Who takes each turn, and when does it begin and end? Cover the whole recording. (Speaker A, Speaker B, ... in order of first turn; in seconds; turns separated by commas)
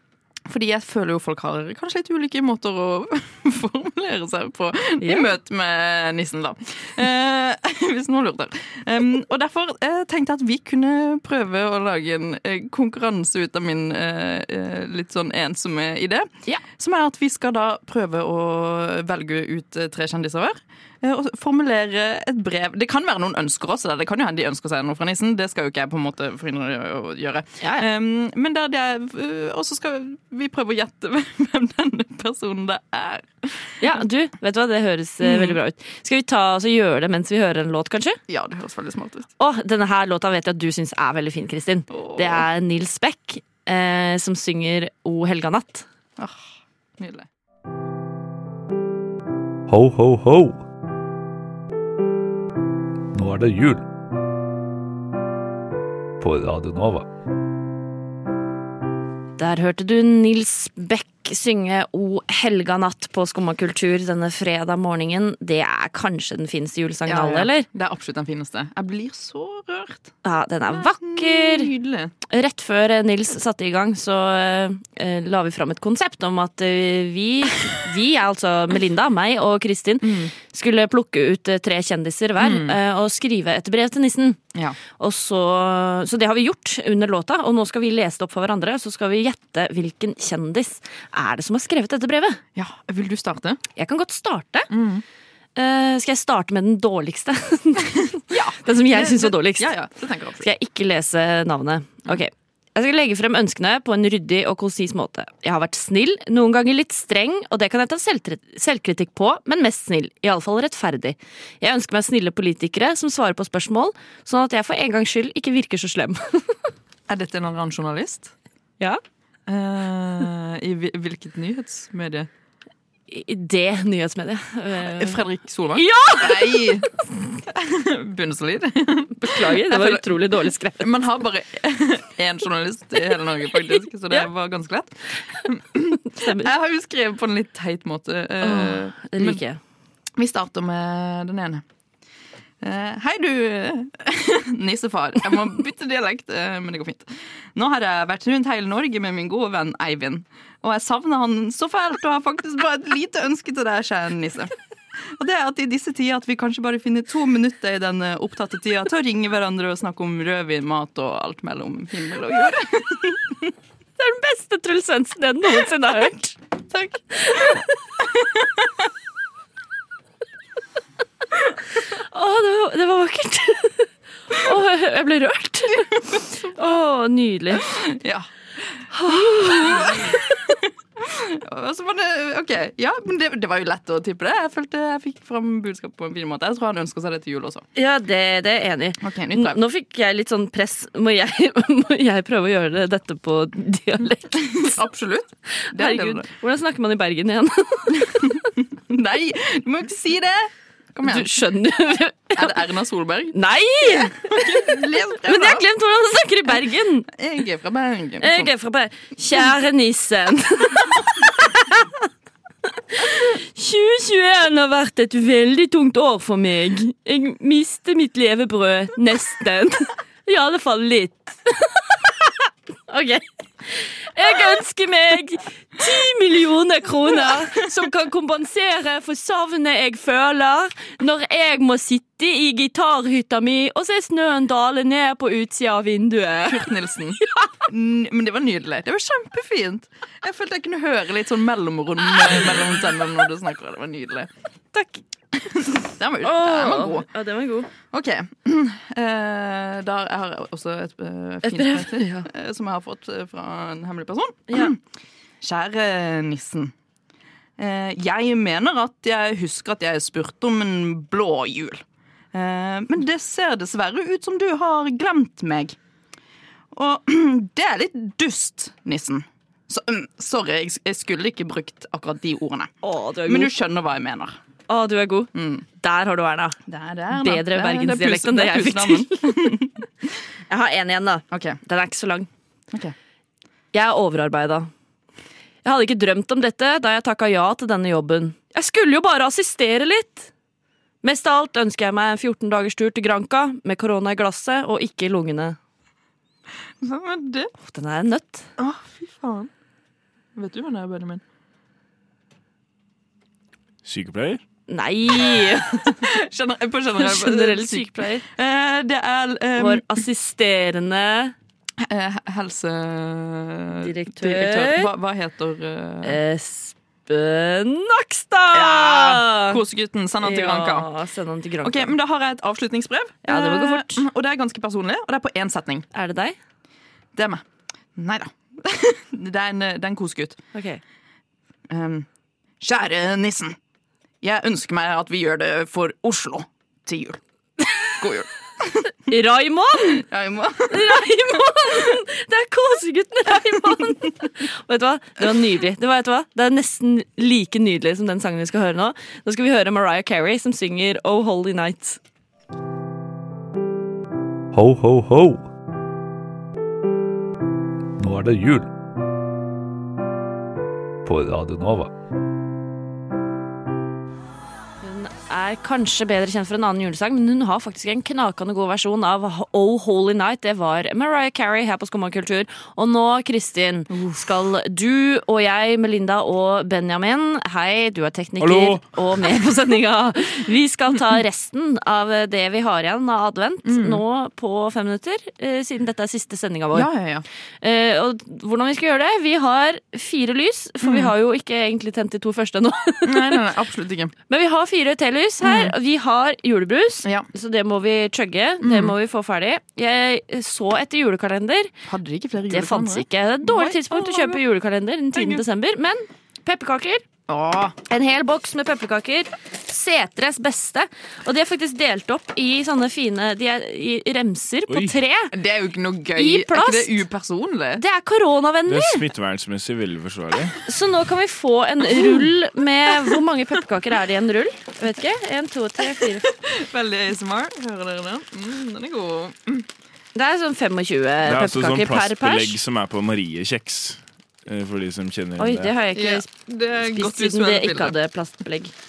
Speaker A: 0.5-33.8, Speaker B: 5.0-5.3, Speaker B: 33.8-38.2, Speaker A: 35.2-35.6, Speaker A: 38.3-39.3, Speaker B: 39.4-45.9, Speaker A: 41.9-42.5, Speaker A: 46.2-46.4, Speaker A: 47.0-47.3, Speaker C: 49.7-50.6, Speaker C: 53.1-53.8, Speaker C: 56.2-57.1, Speaker B: 59.4-67.7, Speaker A: 67.1-70.1, Speaker B: 70.2-71.7, Speaker A: 70.7-72.1, Speaker B: 72.3-84.4, Speaker A: 80.0-80.3, Speaker A: 82.4-82.8, Speaker B: 85.0-92.4, Speaker A: 92.5-93.6, Speaker B: 93.8-94.7, Speaker A: 94.7-95.0, Speaker B: 95.6-99.7, Speaker A: 98.3-100.5, Speaker B: 100.4-116.5, Speaker A: 117.1-118.3, Speaker A: 119.5-122.3, Speaker B: 123.1-125.2, Speaker A: 124.8-126.9, Speaker B: 125.8-126.8, Speaker A: 127.5-130.2, Speaker B: 129.2-130.9, Speaker A: 130.8-134.9, Speaker A: 135.4-139.4, Speaker B: 136.1-136.5, Speaker B: 138.4-139.6, Speaker A: 140.2-141.6, Speaker A: 142.6-154.5, Speaker A: 155.1-163.3, Speaker B: 164.0-166.4, Speaker A: 166.7-168.5, Speaker B: 167.2-167.6, Speaker B: 172.1-177.7, Speaker A: 177.6-178.3, Speaker A: 178.8-187.7, Speaker B: 178.9-180.2, Speaker B: 187.8-194.8, Speaker A: 189.0-189.6, Speaker A: 194.3-196.3, Speaker B: 195.7-198.4, Speaker A: 198.0-201.3, Speaker B: 201.1-202.6, Speaker A: 202.4-203.4, Speaker B: 203.3-207.1, Speaker A: 203.9-205.7, Speaker A: 207.2-208.5, Speaker B: 208.2-212.0, Speaker B: 212.9-222.3, Speaker B: 222.9-236.7, Speaker A: 236.5-244.3, Speaker B: 244.7-245.0, Speaker A: 245.5-247.1, Speaker B: 246.2-247.7, Speaker A: 247.9-254.8, Speaker B: 251.4-252.3, Speaker A: 255.4-256.7, Speaker A: 257.6-265.8, Speaker A: 266.7-272.7, Speaker B: 272.8-273.5, Speaker A: 273.3-274.4, Speaker B: 274.7-276.6, Speaker A: 275.4-275.6, Speaker A: 276.7-279.7, Speaker B: 277.1-279.7, Speaker B: 280.5-282.3, Speaker A: 281.3-281.6, Speaker B: 283.7-284.7, Speaker B: 285.6-290.3, Speaker B: 291.0-295.6, Speaker A: 296.8-297.5, Speaker B: 297.6-298.5, Speaker A: 298.6-299.5, Speaker A: 300.4-301.2, Speaker D: 303.9-304.4, Speaker B: 304.7-306.1, Speaker A: 306.0-309.8, Speaker B: 307.0-308.2, Speaker B: 309.6-311.3, Speaker A: 311.8-316.2, Speaker B: 313.8-314.9, Speaker B: 316.0-319.6, Speaker A: 318.5-320.9, Speaker B: 320.2-322.0, Speaker A: 321.6-325.9, Speaker B: 323.2-324.1, Speaker B: 325.9-326.4, Speaker A: 327.2-327.4, Speaker A: 328.0-330.4, Speaker B: 330.5-330.8, Speaker A: 331.7-332.1, Speaker A: 332.6-333.6, Speaker A: 334.2-337.2, Speaker A: 337.8-338.9, Speaker B: 339.1-340.0, Speaker A: 339.9-341.1, Speaker B: 340.7-352.0, Speaker C: 354.5-355.5, Speaker C: 358.0-358.7, Speaker C: 361.1-361.9, Speaker B: 364.8-386.9, Speaker A: 373.9-374.2, Speaker D: 378.4-379.0, Speaker A: 383.7-384.0, Speaker A: 386.7-387.2, Speaker B: 387.6-393.4, Speaker A: 390.8-391.1, Speaker A: 393.1-394.1, Speaker B: 394.3-401.7, Speaker A: 395.4-395.7, Speaker A: 398.6-398.9, Speaker A: 401.9-404.4, Speaker B: 402.5-407.1, Speaker A: 405.1-405.4, Speaker A: 407.3-407.8, Speaker B: 407.9-415.3, Speaker D: 414.7-415.0, Speaker A: 415.3-417.8, Speaker B: 416.1-417.0, Speaker B: 417.8-419.0, Speaker D: 418.7-420.6, Speaker B: 420.7-426.3, Speaker A: 422.0-422.3, Speaker A: 426.3-429.7, Speaker B: 430.1-432.6, Speaker D: 431.2-435.7, Speaker B: 435.4-436.3, Speaker A: 435.9-437.9, Speaker B: 436.9-438.7